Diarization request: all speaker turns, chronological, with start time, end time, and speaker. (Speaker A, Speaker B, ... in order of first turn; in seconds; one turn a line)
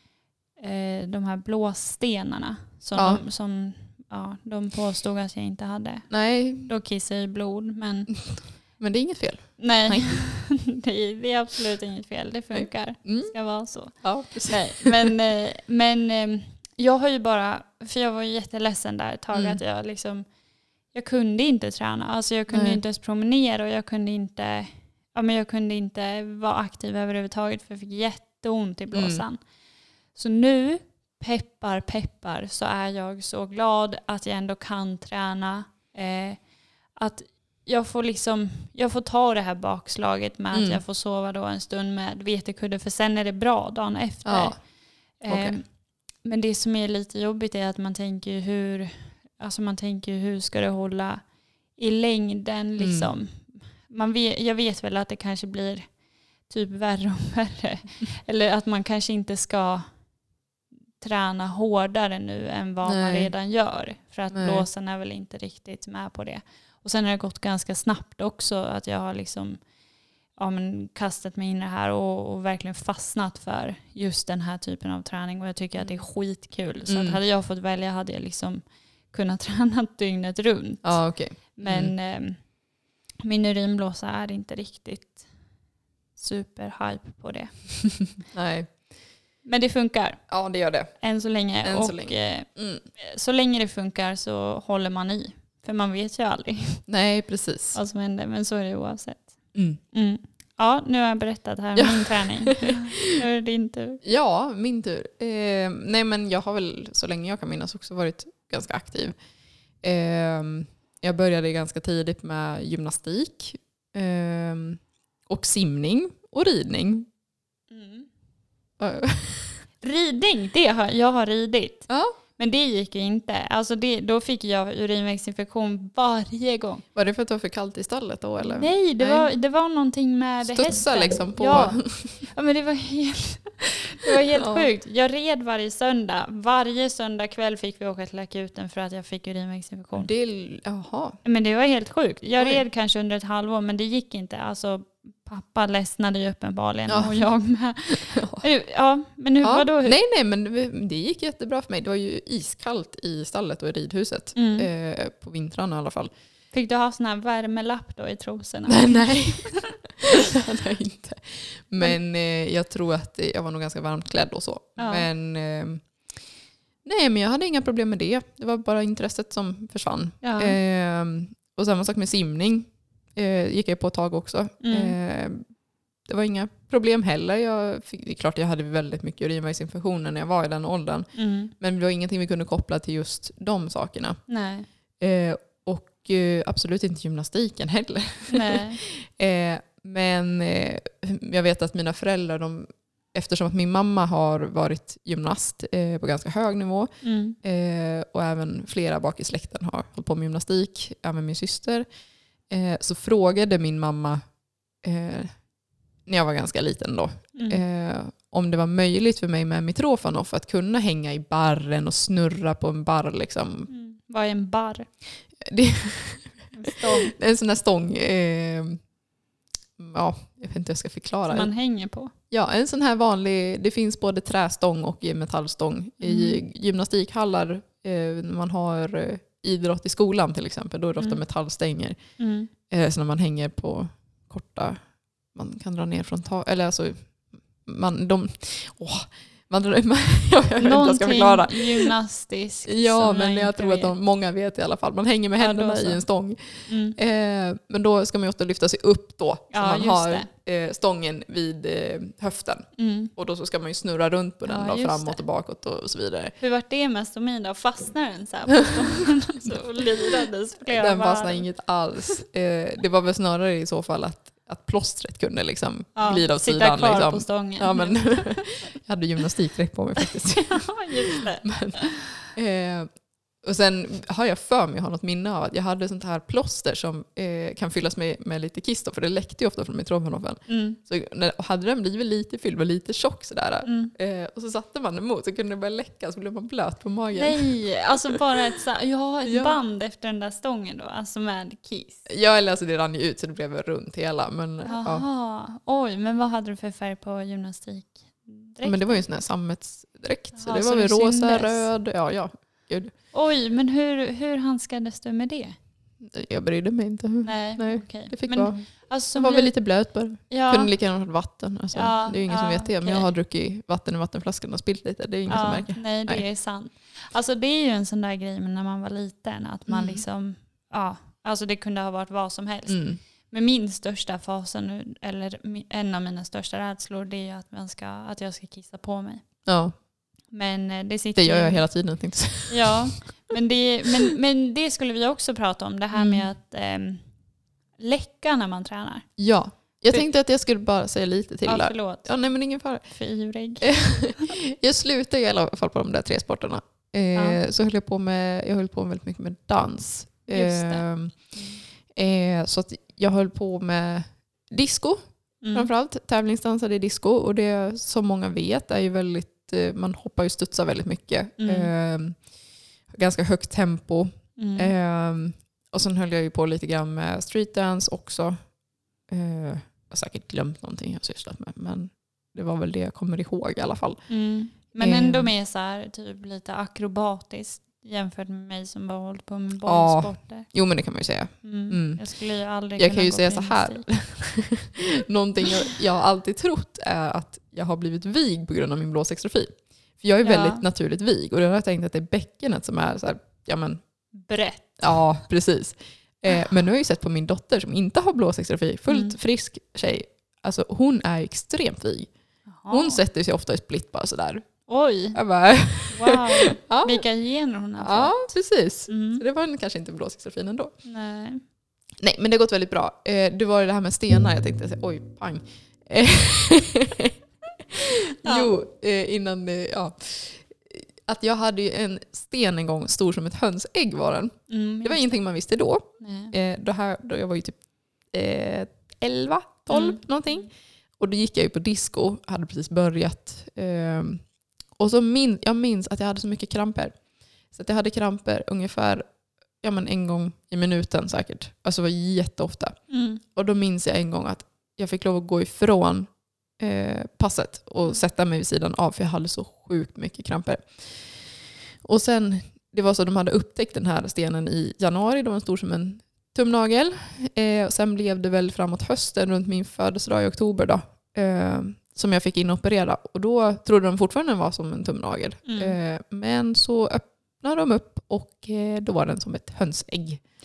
Speaker A: 0.6-6.1
Speaker B: 3.0-3.2
Speaker B: 6.1-6.7
Speaker A: 6.7-8.1
Speaker B: 8.3-10.2
Speaker A: 9.6-20.2
Speaker B: 12.5-13.3
Speaker B: 14.0-15.1
Speaker B: 19.3-19.6
Speaker A: 20.9-29.4
Speaker B: 22.5-22.8
Speaker B: 28.9-29.2
Speaker A: 30.1-36.4
Speaker A: 37.0-44.6
Speaker B: 40.5-40.8
Speaker B: 44.2-44.6
Speaker A: 45.2-45.6
Speaker B: 45.3-45.6
Speaker A: 46.2-51.2
Speaker A: 51.8-55.9
Speaker B: 52.8-53.1
Speaker A: 56.5-59.9
Speaker A: 61.0-69.6
Speaker B: 62.9-63.3
Speaker B: 64.3-64.7
Speaker A: 70.4-82.4
Speaker B: 76.9-77.2
Speaker B: 80.8-81.9
Speaker A: 83.2-85.2
Speaker A: 86.2-87.5
Speaker B: 88.3-88.8
Speaker A: 89.5-90.2
Speaker B: 90.3-91.0
Speaker A: 91.0-96.8
Speaker B: 91.6-92.8
Speaker B: 96.9-97.8
Speaker A: 97.7-99.4
Speaker A: 99.9-104.0
Speaker B: 101.8-103.1
Speaker B: 104.0-109.2
Speaker B: 109.8-117.1
Speaker A: 117.7-118.1
Speaker B: 118.8-119.6
Speaker A: 119.8-121.9
Speaker B: 121.9-122.2
Speaker A: 122.4-126.8
Speaker B: 127.0-129.3
Speaker A: 128.4-140.1
Speaker B: 130.4-132.2
Speaker B: 134.3-134.7
Speaker B: 140.0-141.2
Speaker A: 141.2-150.0
Speaker B: 142.4-142.6
Speaker B: 146.9-147.2
Speaker B: 148.1-148.4
Speaker B: 149.4-156.1
Speaker A: 154.3-154.7
Speaker A: 156.5-159.8
Speaker B: 158.7-165.8
Speaker A: 164.8-165.1
Speaker B: 166.8-175.4
Speaker A: 170.2-170.6
Speaker A: 174.6-175.0
Speaker B: 176.1-184.2
Speaker A: 181.2-181.5
Speaker A: 184.3-184.7
Speaker B: 185.0-196.9
Speaker A: 188.3-188.8
Speaker A: 197.0-197.4
Speaker B: 197.4-201.9
Speaker B: 202.5-204.2
Speaker B: 204.8-205.3
Speaker B: 206.1-213.7
Speaker A: 207.3-207.6
Speaker A: 213.7-214.9
Speaker B: 215.4-218.8
Speaker A: 216.5-217.1
Speaker B: 219.8-221.5
Speaker A: 221.3-222.1
Speaker B: 222.3-232.0
Speaker A: 226.0-226.4
Speaker A: 232.2-232.5
Speaker B: 232.7-234.8
Speaker B: 235.3-237.1
Speaker B: 237.6-241.9
Speaker A: 240.6-243.9
Speaker B: 242.7-256.4
Speaker A: 245.4-246.0
Speaker A: 246.7-247.0
Speaker A: 249.5-250.3
Speaker A: 252.8-253.1
Speaker A: 254.4-255.2
Speaker A: 256.4-261.5
Speaker B: 260.7-272.9
Speaker A: 266.0-268.2
Speaker A: 270.0-272.1
Speaker B: 273.4-287.5
Speaker A: 280.5-280.8
Speaker A: 283.6-283.9
Speaker A: 287.1-292.0
Speaker B: 289.2-289.6
Speaker B: 292.1-295.0
Speaker A: 294.6-299.0
Speaker B: 298.6-302.9
Speaker A: 300.4-301.7
Speaker A: 303.1-305.6
Speaker B: 306.0-316.2
Speaker A: 307.2-309.6
Speaker A: 310.3-310.7
Speaker A: 311.7-313.1
Speaker A: 315.3-329.2
Speaker B: 319.7-320.0
Speaker B: 322.7-323.0
Speaker B: 329.5-329.7
Speaker A: 330.3-331.7
Speaker B: 331.2-332.8
Speaker A: 332.5-337.0
Speaker B: 335.9-336.2
Speaker A: 337.8-339.1
Speaker B: 339.2-342.9
Speaker A: 341.4-342.1
Speaker A: 342.9-344.3
Speaker B: 343.6-351.1
Speaker A: 347.1-347.4
Speaker A: 350.3-351.6
Speaker B: 351.9-355.0
Speaker A: 355.4-355.7
Speaker B: 355.5-362.2
Speaker A: 361.4-361.7
Speaker B: 362.9-368.4
Speaker A: 364.4-364.7
Speaker B: 369.1-374.0
Speaker A: 374.1-380.5
Speaker B: 374.8-375.3
Speaker B: 379.7-382.0
Speaker A: 381.4-383.9
Speaker B: 382.8-393.8
Speaker A: 390.2-390.6
Speaker A: 394.2-395.0
Speaker B: 394.8-402.1
Speaker A: 398.9-399.2
Speaker A: 402.5-403.0
Speaker B: 402.7-404.5
Speaker A: 404.7-405.2
Speaker B: 405.1-407.0
Speaker A: 405.9-408.3
Speaker B: 407.8-410.7
Speaker A: 408.9-409.2
Speaker A: 410.9-411.4
Speaker B: 412.0-417.2
Speaker B: 417.7-427.6
Speaker A: 418.2-418.5
Speaker A: 424.5-425.1
Speaker A: 426.0-426.3
Speaker B: 428.1-434.2
Speaker A: 429.7-430.5
Speaker B: 434.8-437.0
Speaker B: 437.5-439.0
Speaker B: 439.6-442.8
Speaker A: 442.9-443.2
Speaker B: 443.3-470.2
Speaker A: 465.5-465.8